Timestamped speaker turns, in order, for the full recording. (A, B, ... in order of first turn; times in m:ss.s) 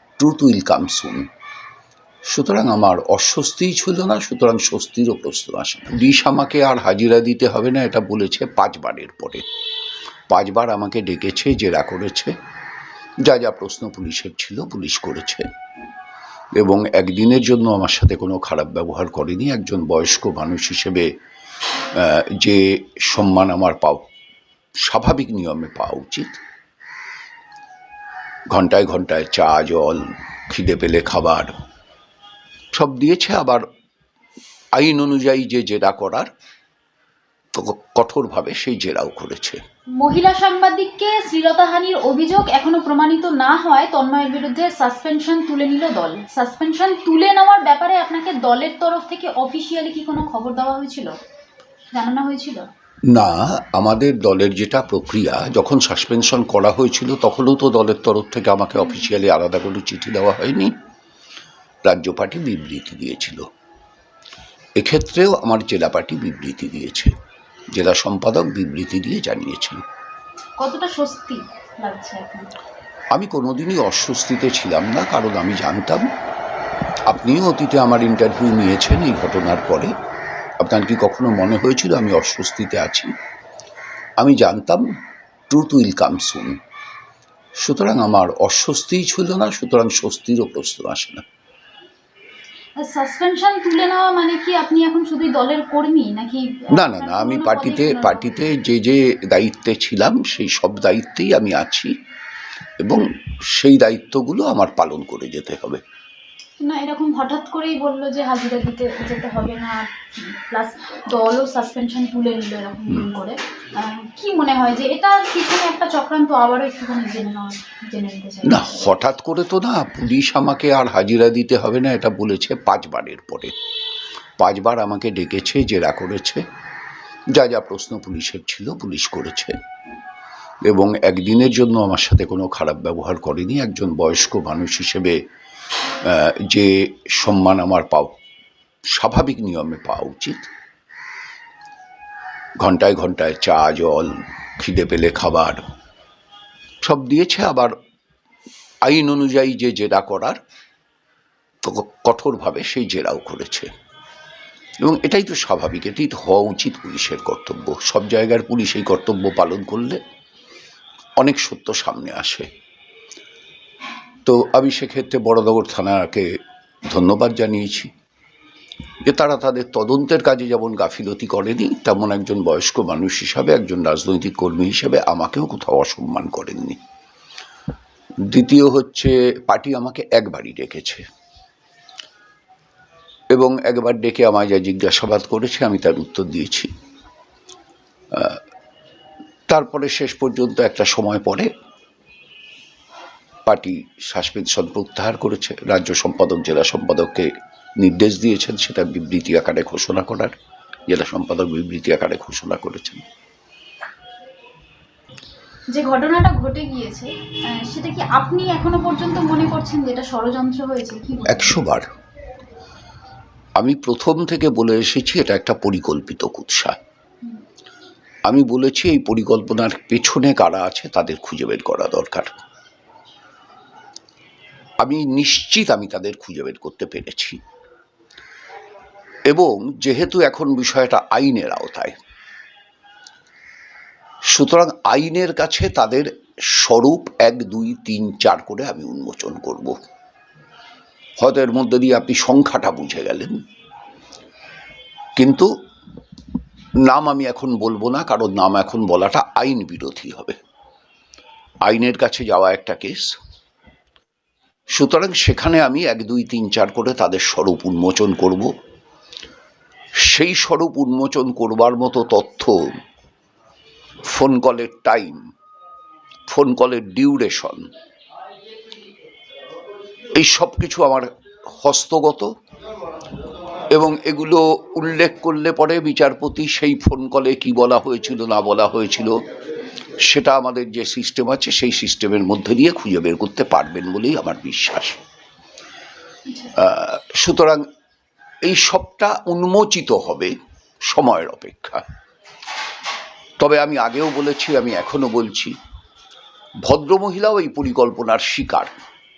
0:00.2-0:01.3 A
0:02.3-0:09.4 A
0:10.3-0:12.3 A
0:13.2-0:15.5 A
0:16.6-0:21.1 A
0:22.0-0:24.0 A
0:24.9-0:26.4 A
0:28.5-0:31.5 A
0:32.7-0:33.6 A
0:34.8-0:36.3 A
0:37.5-0:39.6 A
0:40.0-0:51.1 B
0:51.9-0:52.7 B
0:53.1-1:00.7 A
1:01.9-1:03.4 A
1:04.8-1:07.1 A
1:07.7-1:09.8 A
1:10.6-1:12.5 B
1:13.1-1:16.1 A
1:17.1-1:19.9 A
1:20.6-1:23.1 A
1:24.2-1:24.8 A
1:25.5-1:26.6 A
1:27.6-1:31.2 A
1:32.8-1:38.5 B
1:36.7-1:41.9 A
1:42.8-1:45.8 A
1:46.6-1:59.0 B
1:58.4-2:03.5 A
2:04.4-2:06.4 A
2:07.3-2:09.6 A
2:10.7-2:15.2 A
2:16.0-2:18.1 A
2:19.0-2:20.5 A
2:22.6-2:25.6 A
2:26.8-2:27.7 A
2:28.8-2:30.4 A
2:31.6-2:33.7 A
2:34.8-2:40.0 A
2:41.2-2:42.5 A
2:44.3-2:46.3 A
2:46.9-2:47.9 A
2:49.1-2:56.8 A
2:58.3-3:01.0 A
3:03.3-3:06.7 A
3:08.1-3:08.4 A
3:09.5-3:11.5 A
3:13.5-3:20.4 A
3:20.9-3:23.0 A
3:25.7-3:31.6 B
3:31.3-3:31.9 A
3:33.6-3:36.8 A
3:38.3-3:42.4 A
3:44.8-3:47.4 A
3:49.3-3:52.0 A
3:54.3-3:59.8 A
4:01.2-4:03.3 A
4:05.2-4:05.5 A
4:06.9-4:10.4 A
4:11.7-4:13.2 A
4:14.7-4:18.5 A
4:20.0-4:22.6 A
4:24.1-4:25.2 A
4:26.3-4:27.7 A
4:30.2-4:32.3 A
4:33.7-4:39.1 A
4:40.0-4:45.0 A
4:46.6-4:47.6 A
4:48.5-4:50.3 A
4:50.9-4:51.8 A
4:53.4-4:55.6 A
4:56.6-4:58.7 A